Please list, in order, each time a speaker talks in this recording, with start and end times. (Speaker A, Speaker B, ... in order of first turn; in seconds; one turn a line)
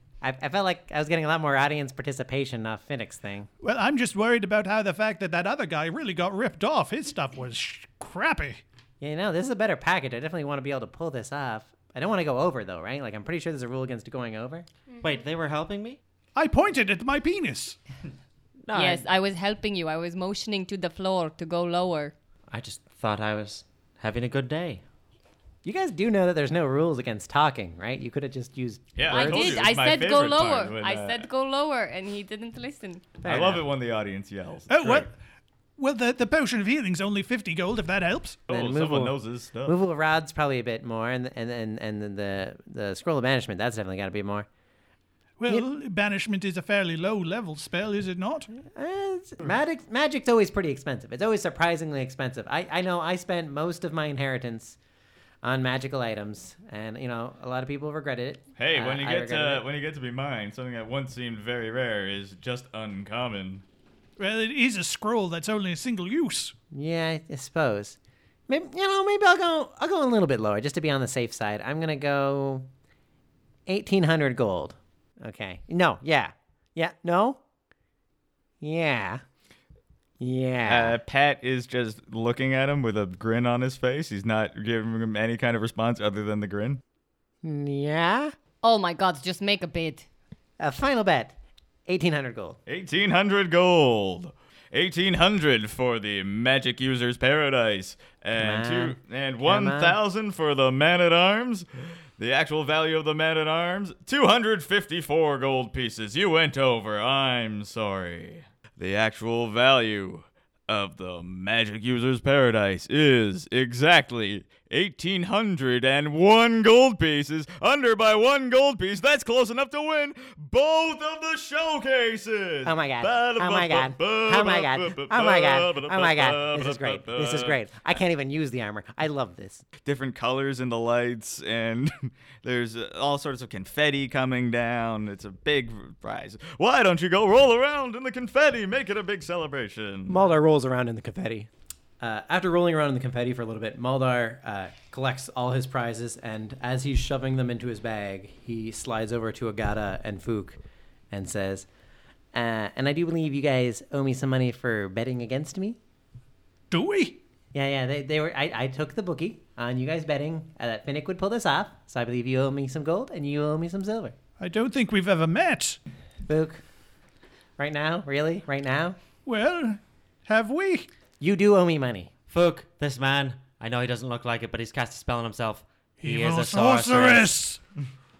Speaker A: 0.2-3.5
Speaker B: 3.6-8.6
Speaker A: 9.0-14.7
Speaker C: 15.0-16.0
Speaker B: 16.4-17.8
Speaker C: 18.6-19.0
Speaker D: 18.7-22.1
Speaker C: 22.5-24.8
Speaker A: 25.6-29.6
Speaker E: 28.9-31.3
Speaker D: 29.1-33.2
Speaker A: 33.2-33.6
Speaker E: 33.2-35.1
Speaker B: 34.7-35.1
Speaker B: 35.8-38.4
Speaker E: 38.5-39.8
Speaker A: 38.5-44.5
Speaker B: 45.4-48.5
Speaker A: 48.5-54.8
Speaker A: 55.4-59.6
Speaker E: 58.6-63.6
Speaker B: 64.2-66.5
Speaker A: 66.7-72.7
Speaker A: 73.7-77.4
Speaker A: 78.6-79.2
Speaker A: 80.2-81.0
Speaker E: 80.7-86.8
Speaker A: 87.4-88.3
Speaker D: 88.6-90.1
Speaker A: 90.6-91.3
Speaker A: 91.9-92.6
Speaker E: 92.7-101.7
Speaker A: 98.4-100.0
Speaker E: 102.2-127.6
Speaker A: 122.6-129.6
Speaker E: 129.8-140.2
Speaker A: 140.1-150.6
Speaker A: 151.1-151.7
Speaker A: 152.3-155.8
Speaker B: 156.7-157.2
Speaker A: 157.5-164.1
Speaker B: 164.4-165.8
Speaker A: 166.2-166.6
Speaker A: 167.6-169.0
Speaker B: 169.2-170.9
Speaker A: 171.2-172.1
Speaker C: 172.3-177.3
Speaker B: 176.0-177.6